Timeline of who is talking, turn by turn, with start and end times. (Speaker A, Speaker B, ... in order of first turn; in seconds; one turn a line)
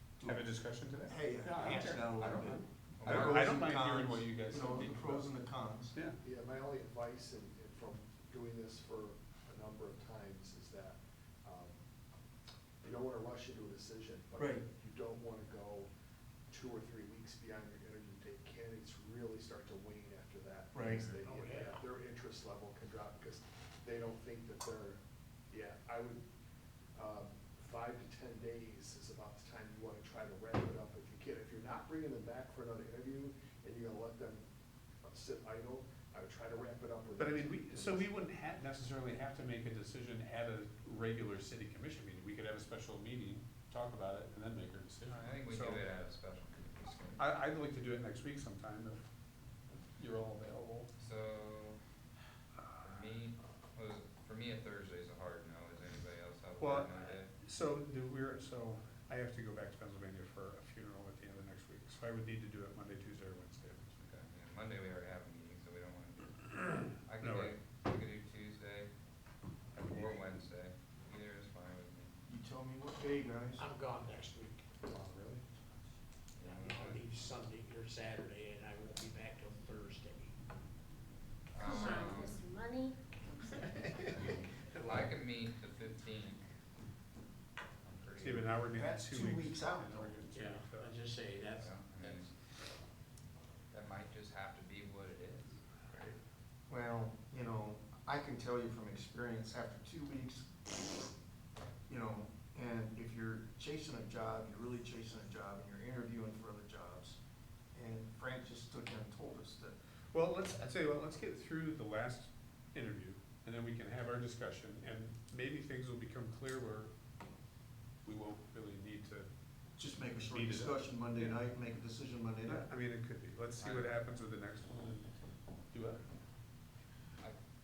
Speaker A: 0.2-0.5
Speaker B: 0.2-5.3
Speaker A: 1.0-6.0
Speaker C: 3.0-3.5
Speaker D: 6.2-11.7
Speaker D: 12.8-15.9
Speaker A: 14.4-14.6
Speaker D: 16.5-25.0
Speaker A: 20.7-21.1
Speaker E: 21.1-21.8
Speaker D: 25.5-26.2
Speaker D: 26.9-34.4
Speaker D: 35.0-38.1
Speaker B: 37.2-45.8
Speaker C: 45.0-47.2
Speaker B: 47.2-49.0
Speaker B: 49.7-50.9
Speaker C: 51.0-51.8
Speaker B: 52.6-52.9
Speaker C: 52.8-57.3
Speaker B: 56.6-64.0
Speaker C: 64.0-68.9
Speaker B: 67.2-67.5
Speaker B: 69.7-70.2
Speaker C: 69.8-72.2
Speaker A: 72.3-73.7
Speaker E: 73.6-74.8
Speaker C: 76.4-77.0
Speaker E: 76.5-80.3
Speaker C: 81.5-82.4
Speaker F: 81.6-84.2
Speaker C: 84.1-86.4
Speaker C: 87.8-88.5
Speaker B: 88.2-91.0
Speaker A: 88.7-90.2
Speaker E: 90.3-92.1
Speaker C: 91.5-92.3
Speaker C: 93.7-95.6
Speaker A: 96.7-101.1
Speaker A: 101.9-107.2
Speaker A: 107.7-109.8
Speaker B: 110.1-116.9
Speaker B: 118.0-119.3
Speaker A: 119.8-122.7
Speaker B: 120.3-121.4
Speaker B: 122.5-125.1
Speaker C: 123.6-123.9
Speaker B: 125.7-126.0